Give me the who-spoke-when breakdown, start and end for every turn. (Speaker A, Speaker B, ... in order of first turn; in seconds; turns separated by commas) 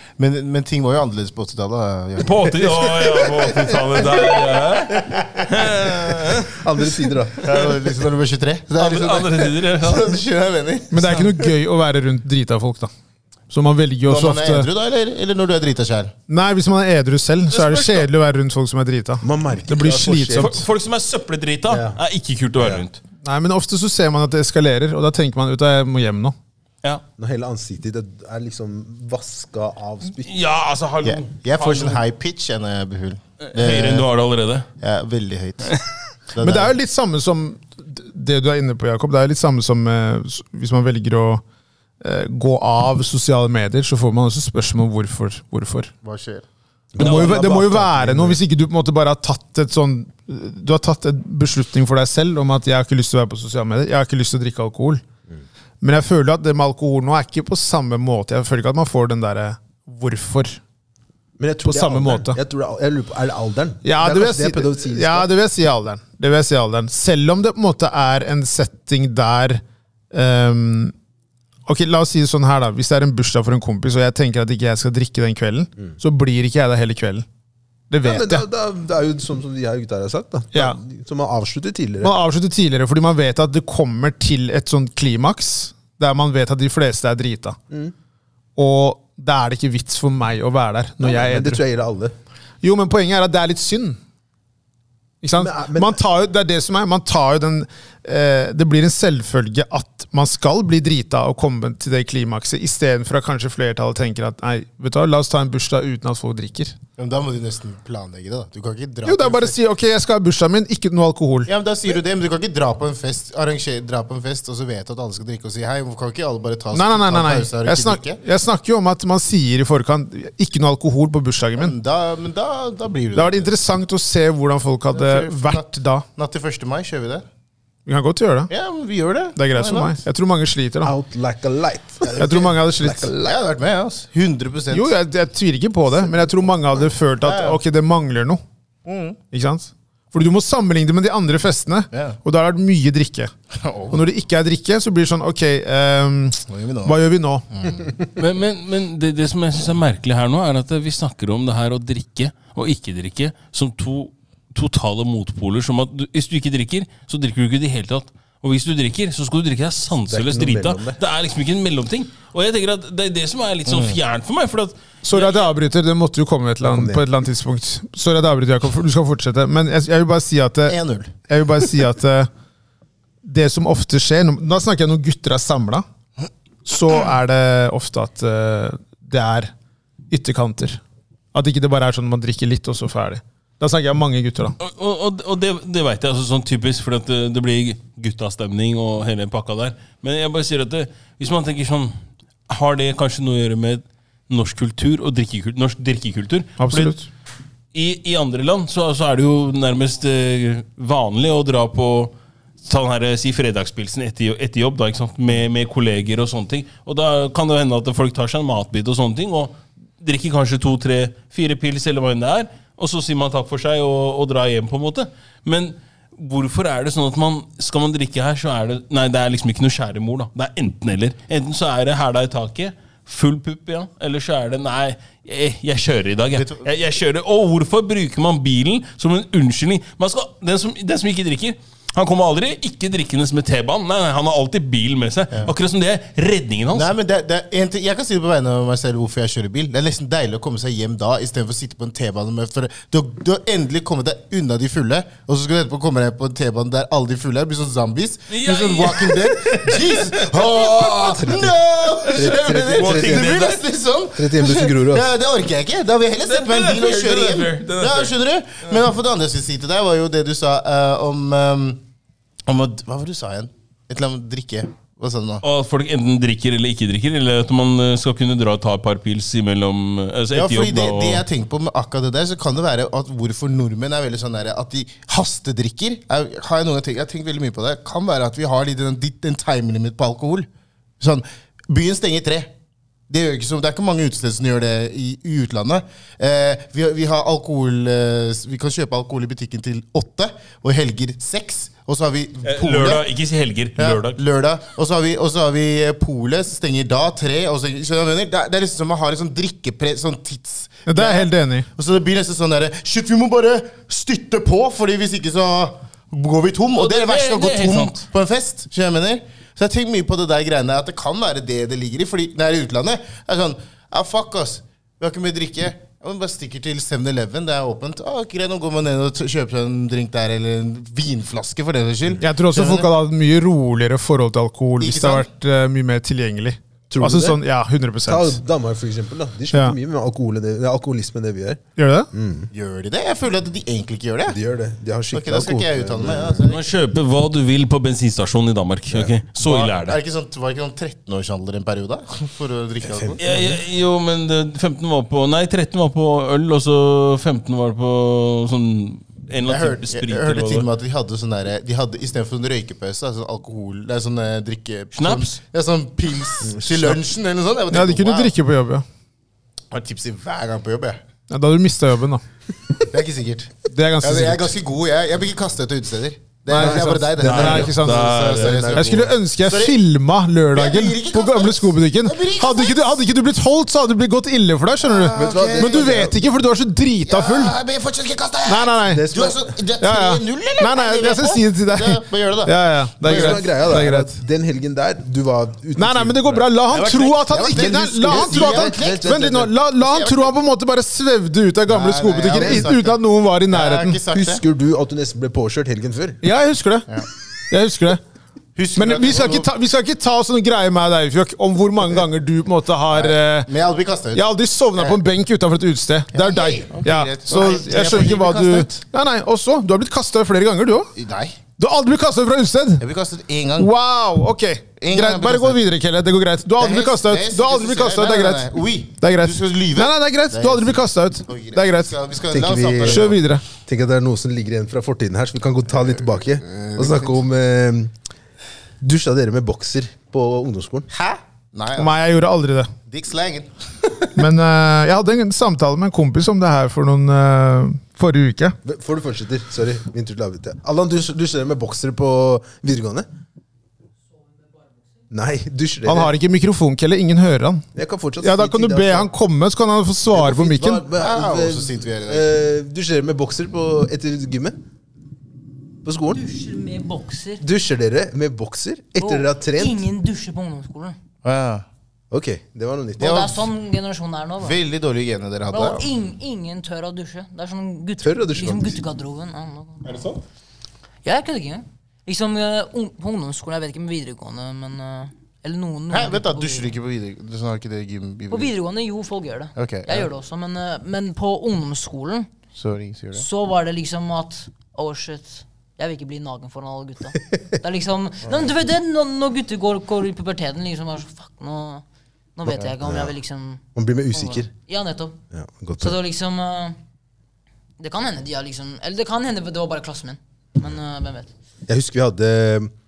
Speaker A: 0.2-2.5, Speaker B: 2.2-6.5, Speaker C: 6.4-7.5, Speaker A: 7.4-11.4, Speaker B: 8.8-10.2, Speaker D: 10.9-12.9, Speaker D: 13.5-14.7, Speaker A: 14.0-16.1, Speaker D: 16.3-20.6, Speaker B: 17.5-18.1, Speaker C: 19.2-20.6, Speaker B: 20.3-23.0, Speaker C: 21.7-22.0, Speaker C: 22.6-22.8, Speaker D: 23.2-26.3, Speaker C: 27.2-30.3, Speaker B: 30.1-32.0, Speaker A: 31.0-34.1, Speaker B: 33.5-34.7, Speaker A: 34.8-35.8, Speaker A: 36.3-36.7, Speaker D: 36.4-41.4, Speaker D: 42.0-45.9, Speaker A: 46.0-46.4, Speaker C: 46.9-48.4, Speaker D: 47.0-55.0, Speaker B: 47.0-47.4, Speaker A: 47.1-47.6, Speaker D: 55.8-60.6, Speaker C: 61.4-65.3, Speaker D: 61.7-62.4, Speaker D: 63.8-70.9, Speaker D: 71.7-77.2, Speaker D: 77.9-78.4, Speaker C: 78.0-82.1, Speaker D: 82.0-87.6, Speaker D: 88.6-91.6, Speaker C: 91.0-92.1, Speaker D: 92.6-94.0, Speaker D: 95.2-106.8, Speaker C: 95.3-96.0, Speaker A: 107.0-109.5, Speaker D: 109.0-111.5, Speaker A: 111.5-118.2, Speaker D: 116.7-121.7, Speaker A: 121.6-123.5, Speaker D: 123.1-126.0, Speaker A: 124.9-127.2, Speaker D: 127.8-128.5, Speaker A: 128.5-130.0, Speaker D: 129.3-130.9, Speaker C: 130.8-133.3, Speaker A: 132.0-132.5, Speaker D: 132.2-133.1, Speaker A: 133.2-134.9, Speaker D: 134.7-138.4, Speaker A: 137.2-137.6, Speaker A: 138.8-139.2, Speaker D: 139.3-143.3, Speaker A: 141.9-142.2, Speaker A: 143.5-144.0, Speaker D: 143.9-147.4, Speaker A: 146.5-147.9, Speaker B: 148.2-165.5, Speaker C: 160.1-161.0, Speaker A: 163.7-164.0, Speaker D: 165.0-170.8, Speaker C: 166.6-167.1, Speaker A: 170.7-171.1, Speaker D: 171.3-172.3, Speaker D: 173.2-175.8, Speaker D: 176.7-179.5, Speaker D: 180.1-180.8, Speaker D: 181.3-184.6, Speaker B: 184.6-191.9, Speaker B: 192.5-197.0, Speaker D: 196.6-197.1, Speaker B: 197.7-236.9, Speaker A: 226.3-226.7, Speaker A: 236.7-261.8, Speaker B: 248.3-251.4, Speaker C: 251.2-251.5, Speaker B: 252.0-253.6, Speaker C: 252.1-253.4, Speaker C: 254.2-255.1, Speaker B: 256.2-258.1, Speaker A: 262.5-265.4, Speaker B: 265.4-271.2, Speaker A: 270.3-280.5, Speaker A: 281.0-282.5, Speaker A: 283.1-293.0, Speaker B: 292.4-294.2, Speaker A: 293.8-322.9, Speaker D: 300.9-301.7, Speaker B: 306.8-308.1, Speaker D: 322.2-328.4, Speaker A: 324.8-325.3, Speaker C: 326.9-327.4, Speaker C: 328.1-332.5, Speaker D: 331.8-332.1, Speaker A: 332.5-334.4, Speaker C: 334.3-336.4, Speaker A: 335.1-336.7, Speaker B: 336.5-340.0, Speaker A: 339.4-343.4, Speaker C: 342.8-343.4, Speaker B: 343.2-350.7, Speaker A: 349.4-358.3, Speaker B: 354.9-355.4, Speaker C: 356.4-356.8, Speaker D: 357.7-358.8, Speaker A: 359.7-361.0, Speaker D: 361.3-362.2, Speaker A: 362.9-369.8, Speaker D: 363.7-364.5, Speaker D: 366.5-377.6, Speaker C: 366.5-369.1, Speaker B: 367.2-368.7, Speaker A: 370.5-373.0, Speaker A: 374.8-376.0, Speaker C: 375.1-376.2, Speaker A: 377.1-383.4, Speaker D: 378.5-379.1, Speaker C: 378.9-379.5, Speaker D: 379.8-384.1, Speaker C: 383.0-389.6, Speaker D: 385.8-394.0, Speaker A: 386.7-389.1, Speaker A: 389.8-390.3, Speaker A: 391.7-394.4, Speaker C: 392.3-392.7, Speaker C: 394.1-396.2, Speaker D: 396.2-396.9, Speaker D: 397.5-398.0, Speaker A: 398.6-399.5, Speaker D: 398.8-403.5, Speaker A: 402.9-405.0, Speaker D: 404.1-410.9, Speaker A: 406.1-408.8, Speaker A: 410.9-411.4, Speaker D: 411.6-412.8, Speaker A: 412.8-413.7, Speaker D: 413.6-421.9, Speaker A: 414.8-415.6, Speaker A: 416.6-423.2, Speaker C: 422.3-427.9, Speaker D: 422.8-423.4, Speaker A: 425.8-427.2, Speaker C: 428.8-430.9, Speaker A: 430.9-431.9, Speaker D: 431.8-432.7, Speaker A: 432.9-433.6, Speaker D: 434.1-438.6, Speaker C: 438.6-443.1, Speaker C: 445.1-446.1, Speaker D: 445.9-447.6, Speaker C: 447.7-449.1, Speaker D: 448.2-450.8, Speaker C: 450.1-454.6, Speaker A: 450.9-452.3, Speaker C: 455.8-456.2, Speaker E: 456.1-457.4, Speaker C: 457.4-459.8, Speaker E: 459.0-460.9, Speaker A: 461.2-461.6, Speaker C: 462.1-463.4, Speaker A: 463.0-463.4, Speaker E: 463.0-464.6, Speaker A: 464.4-465.9, Speaker E: 465.5-470.0, Speaker C: 468.0-468.8, Speaker E: 471.0-476.7, Speaker A: 475.9-478.5, Speaker E: 478.3-482.3, Speaker A: 479.5-480.1, Speaker A: 482.6-483.2, Speaker E: 483.1-491.8, Speaker E: 492.4-495.2, Speaker A: 492.5-492.7, Speaker C: 492.8-493.1, Speaker C: 493.7-494.5, Speaker C: 495.3-496.0, Speaker E: 495.8-496.8, Speaker E: 497.8-501.3, Speaker C: 501.7-502.7